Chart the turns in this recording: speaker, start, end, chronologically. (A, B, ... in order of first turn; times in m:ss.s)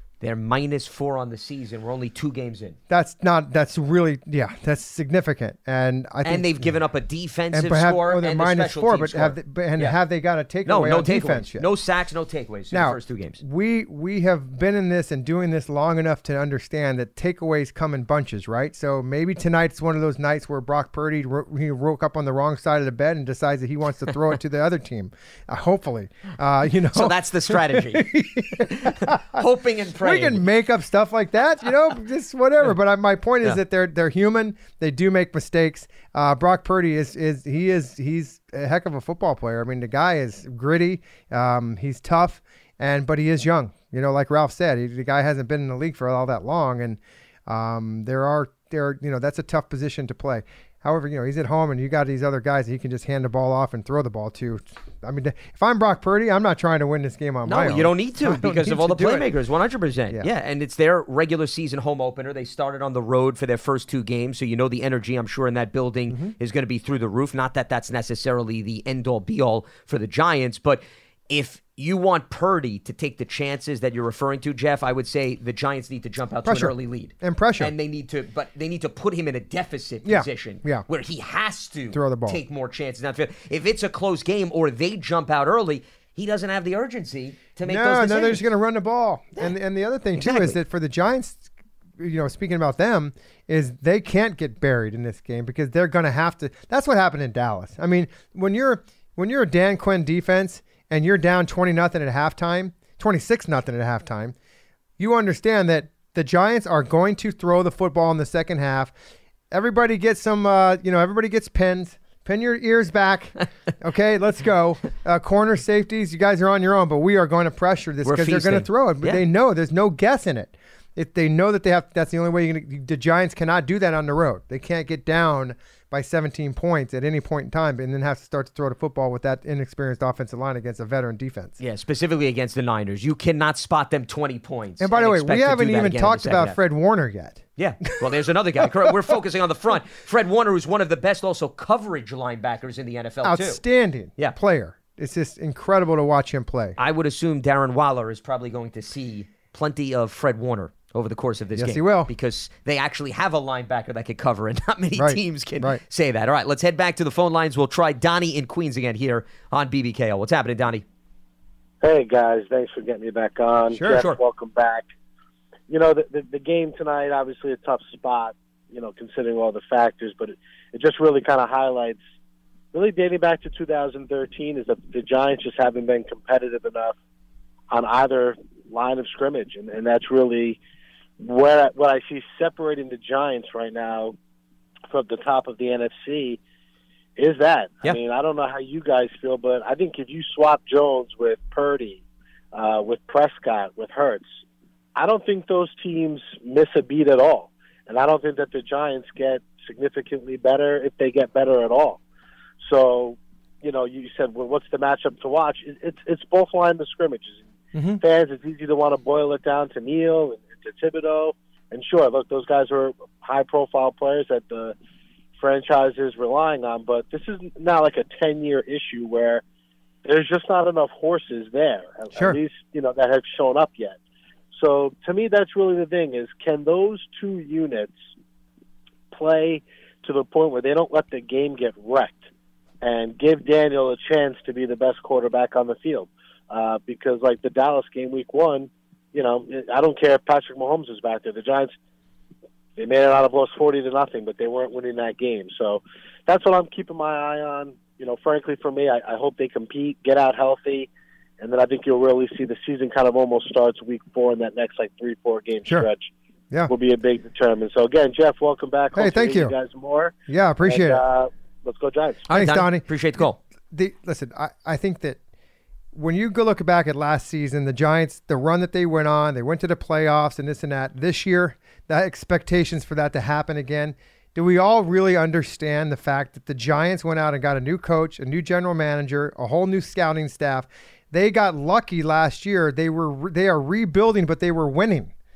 0:00.2-0:02.8 A
0:02.9-0:06.7 B
0:06.2-0:10.0 A
0:07.5-0:11.7 B
0:10.6-0:13.4 A
0:12.7-0:29.4 B
0:26.9-0:30.4 A
0:30.0-0:59.3 B
0:57.4-1:28.4 A
1:06.1-1:06.3 B
1:16.4-1:17.7 B
1:20.0-1:20.8 B
1:21.9-1:22.4 B
1:27.6-1:44.3 B
1:30.2-1:30.6 A
1:45.0-1:48.9 B
1:49.5-2:11.6 B
1:58.0-1:59.2 A
2:11.6-2:16.6 A
2:14.8-2:18.0 B
2:17.6-2:23.6 A
2:18.6-2:19.1 B
2:23.2-2:26.8 B
2:26.8-2:40.8 A
2:31.5-2:32.1 B
2:35.0-2:35.8 B
2:41.8-2:44.9 C
2:43.7-2:44.0 B
2:43.9-2:44.2 A
2:45.7-2:52.0 C
2:52.7-2:56.9 C
2:57.7-3:00.6 C
3:01.2-3:04.1 C
3:04.9-3:06.4 C
3:07.2-3:14.3 C
3:14.9-3:22.0 C
3:22.6-3:27.5 C
3:27.7-3:28.0 B
3:28.0-3:34.7 C
3:35.4-3:39.4 C
3:40.0-3:44.0 C
3:44.5-3:48.0 C
3:49.1-3:52.3 C
3:52.8-4:01.7 C
4:02.8-4:16.1 C
4:16.7-4:22.2 C
4:18.9-4:19.5 B
4:20.3-4:21.0 B
4:22.3-4:23.4 A
4:22.3-4:25.2 B
4:25.9-4:45.1 B